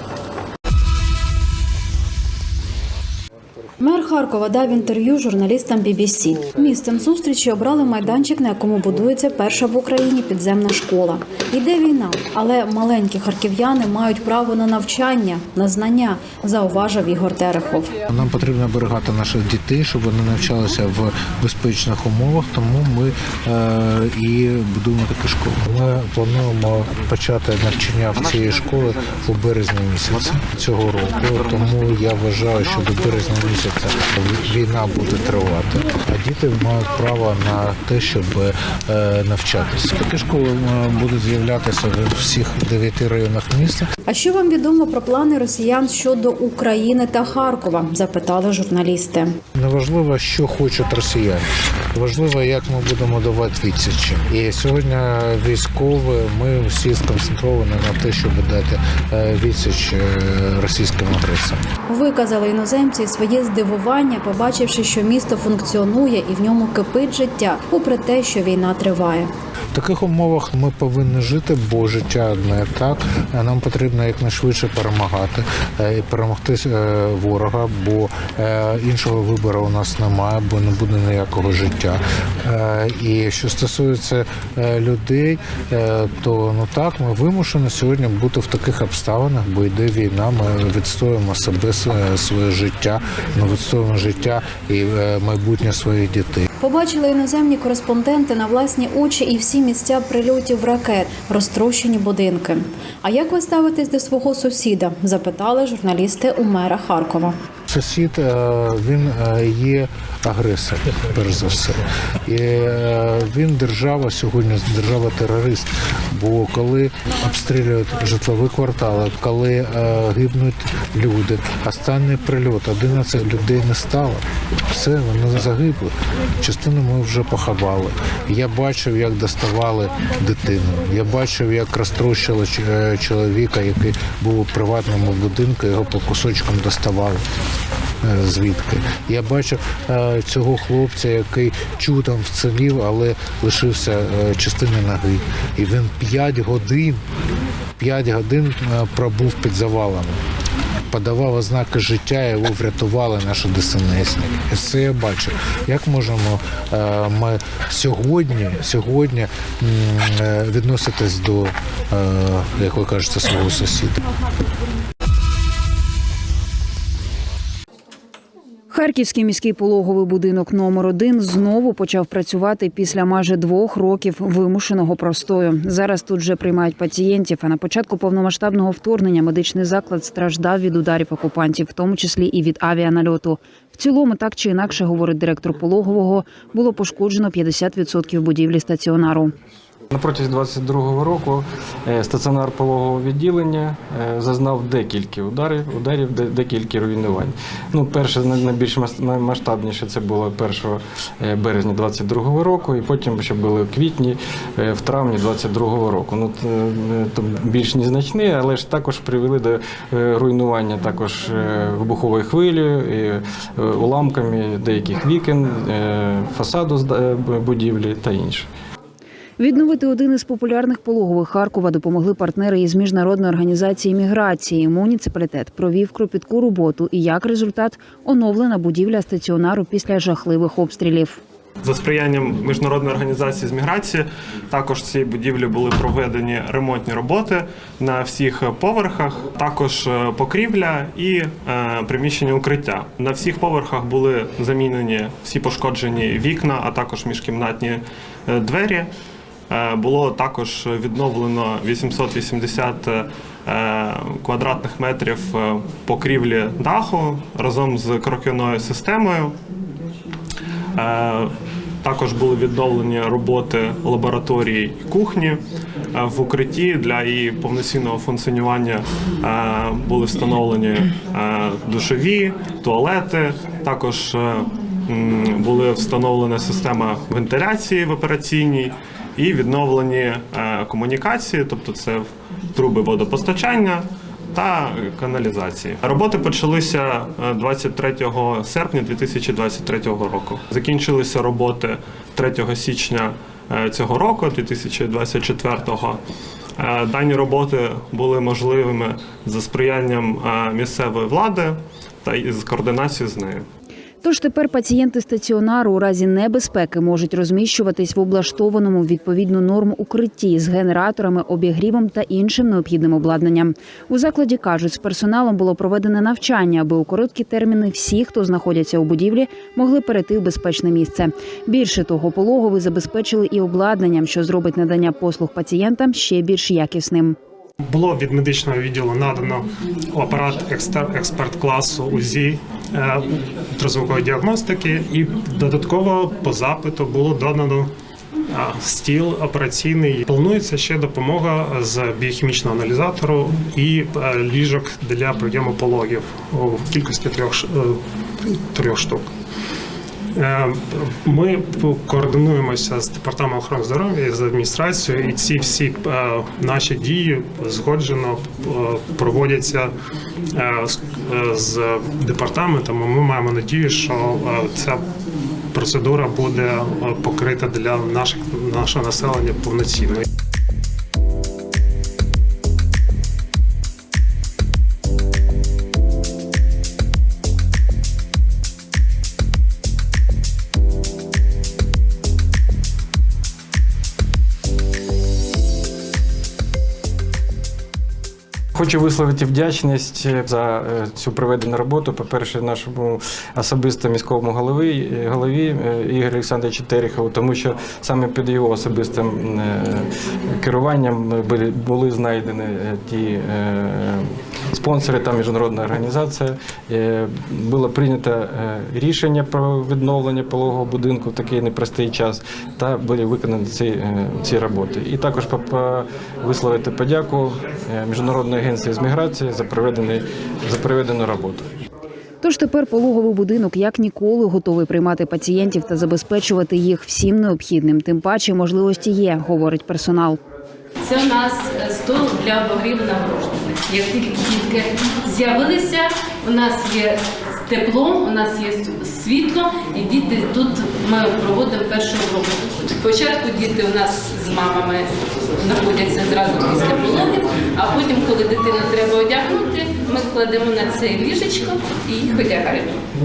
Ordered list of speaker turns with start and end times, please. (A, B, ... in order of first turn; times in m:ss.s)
0:03.8-0:17.9 A
0:18.1-0:43.9 B
0:44.1-0:49.4 A
0:49.5-1:01.6 B
1:01.9-1:09.3 A
1:09.7-1:36.5 B
1:36.6-1:47.4 A
1:47.7-2:17.2 B
2:18.0-2:27.0 B
2:27.8-2:30.2 B
2:30.9-2:44.0 B
2:48.7-3:09.3 C
3:09.9-3:38.5 D
3:39.4-3:51.2 C
3:51.6-4:08.9 E
4:09.5-4:19.4 E
4:20.8-4:25.4 E
4:25.9-4:56.0 E
4:56.6-5:03.5 E
5:04.0-5:27.2 C
5:27.7-5:37.7 F
5:38.3-5:49.1 F
5:50.2-5:59.7 F
6:00.3-6:04.9 F
6:05.5-6:10.0 F
6:28.5-7:01.5 D
7:02.2-7:10.2 C
7:10.8-7:32.8 G